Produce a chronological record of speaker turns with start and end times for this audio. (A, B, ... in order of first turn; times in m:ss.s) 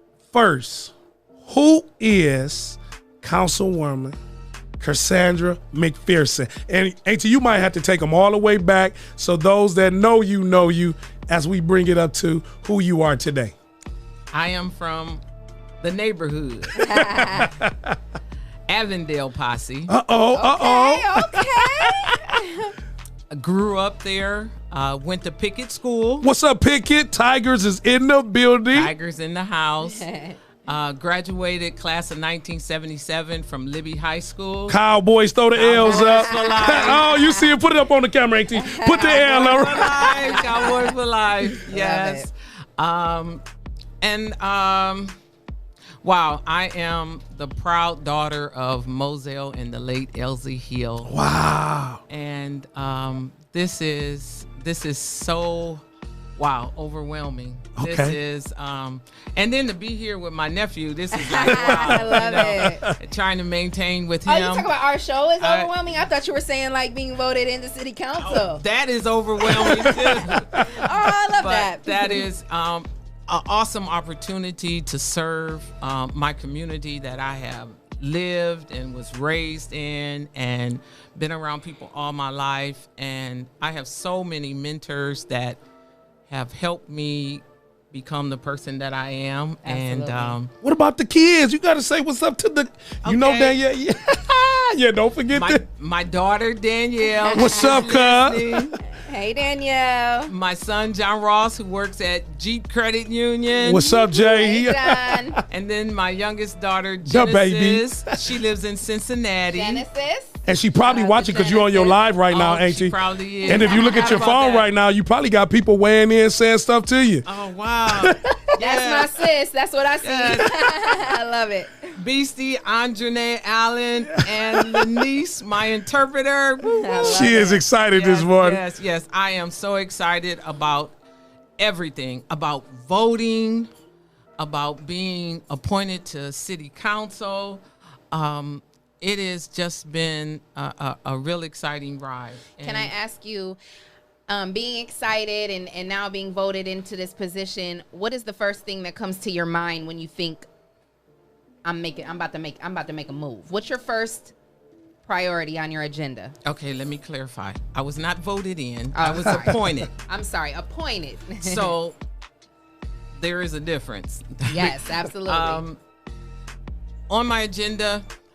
0:00.3-0:04.2 A
0:04.8-0:13.5 A
0:14.3-0:15.2 B
0:15.8-0:17.4 B
0:16.7-0:18.0 A
0:16.8-0:17.5 C
0:18.7-0:19.9 B
0:19.9-0:22.3 A
0:20.3-0:22.7 C
0:23.3-0:26.3 B
0:26.2-0:28.9 A
0:28.7-0:30.1 B
0:29.8-0:30.4 C
0:30.6-0:34.8 B
0:34.7-0:40.5 A
0:35.6-0:37.1 B
0:35.9-0:37.5 C
0:38.6-0:40.9 C
0:39.0-0:43.4 B
0:41.6-0:42.3 C
0:44.0-0:45.1 B
0:46.0-0:51.1 B
0:51.0-0:52.0 A
0:52.1-0:55.8 B
0:56.4-1:04.7 B
0:57.8-0:58.2 A
1:01.1-1:02.9 C
1:01.4-1:03.0 A
1:04.3-1:08.6 C
1:05.4-1:05.7 B
1:08.1-1:25.6 B
1:09.4-1:10.7 A
1:09.9-1:12.3 C
1:26.3-1:30.5 B
1:29.6-1:30.4 C
1:30.6-1:35.6 A
1:33.0-1:33.6 B
1:35.3-1:38.8 B
1:37.1-1:37.9 C
1:37.3-1:38.7 A
1:38.9-1:40.3 C
1:40.3-1:44.0 B
1:43.6-1:45.4 A
1:44.1-1:45.4 C
1:45.5-1:49.8 B
1:47.1-1:48.2 A
1:49.5-1:52.0 C
1:50.4-1:57.2 A
1:52.3-1:54.7 B
1:53.5-1:54.3 C
1:57.2-1:59.2 B
1:57.9-1:58.4 A
1:58.6-2:01.9 C
2:00.0-2:01.0 B
2:02.0-2:07.4 B
2:04.3-2:04.9 A
2:06.7-2:07.6 C
2:07.0-2:08.6 A
2:07.9-2:10.9 B
2:11.6-2:13.7 B
2:14.4-2:22.9 B
2:22.6-2:23.6 C
2:24.3-2:30.5 C
2:31.6-2:34.3 C
2:35.1-2:36.3 C
2:36.4-2:39.9 B
2:38.9-2:41.7 C
2:41.4-2:42.0 B
2:43.2-2:45.8 B
2:44.5-2:45.6 C
2:47.1-2:48.0 B